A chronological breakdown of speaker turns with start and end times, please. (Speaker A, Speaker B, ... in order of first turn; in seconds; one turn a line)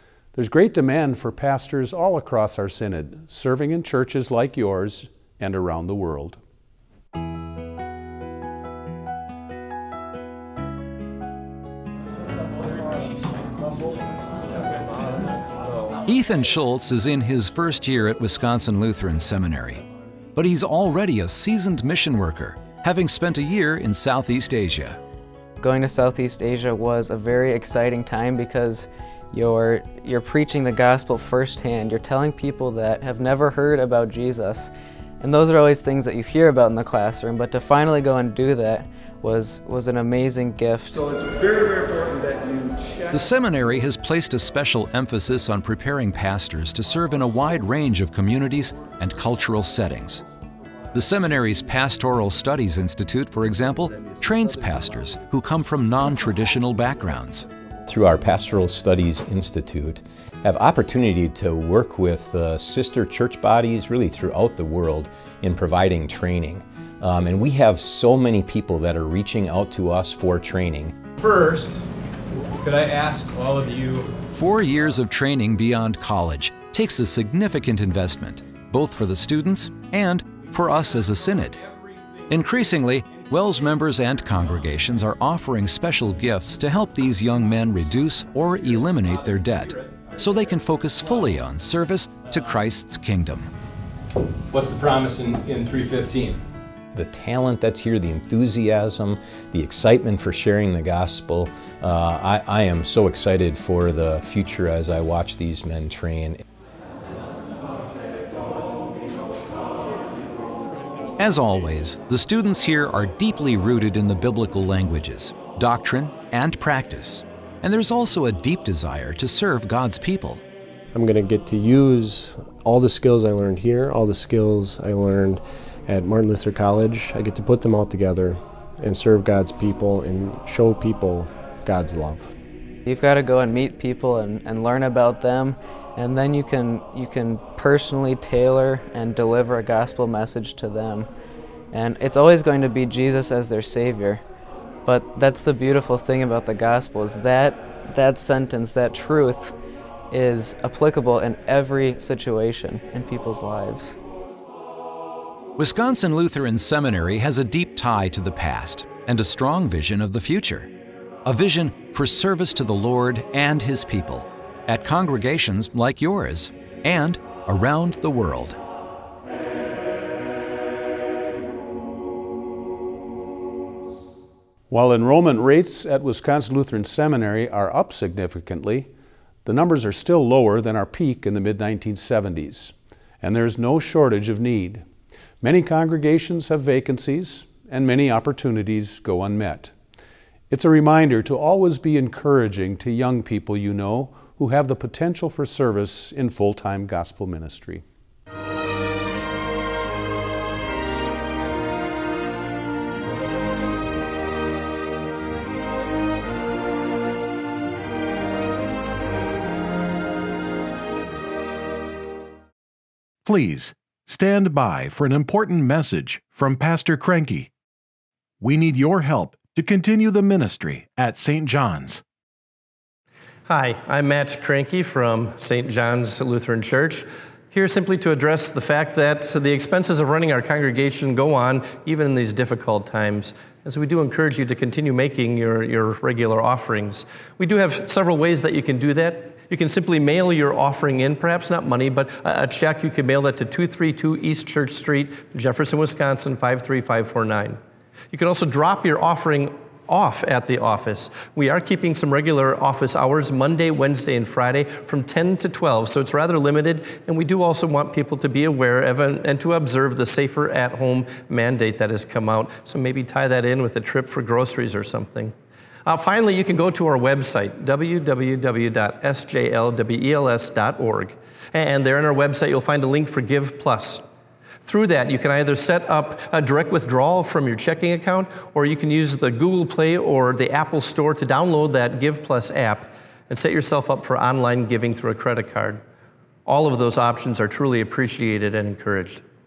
Speaker A: 0.3-6.4
Speaker B: 16.1-19.8
Speaker B: 20.3-25.0
Speaker C: 25.6-41.1
Speaker B: 43.1-50.2
Speaker B: 50.9-57.5
Speaker D: 57.9-71.0
Speaker E: 71.2-71.7
Speaker E: 72.5-74.1
Speaker B: 74.3-81.6
Speaker B: 82.3-93.5
Speaker E: 94.7-96.1
Speaker D: 96.9-106.4
Speaker B: 111.2-120.4
Speaker F: 120.9-132.3
Speaker C: 132.8-141.1
Speaker C: 141.7-144.2
Speaker C: 144.8-149.5
Speaker C: 150.1-153.9
Speaker B: 155.6-160.7
Speaker B: 161.2-168.6
Speaker A: 174.7-178.9
Speaker A: 179.4-184.8
Speaker A: 185.4-189.7
Speaker A: 190.5-197.8
Speaker G: 213.2-217.5
Speaker G: 218.4-222.0
Speaker H: 223.5-247.6
Speaker H: 248.1-265.3
Speaker H: 265.9-274.0
Speaker H: 274.6-285.8
Speaker H: 286.4-289.2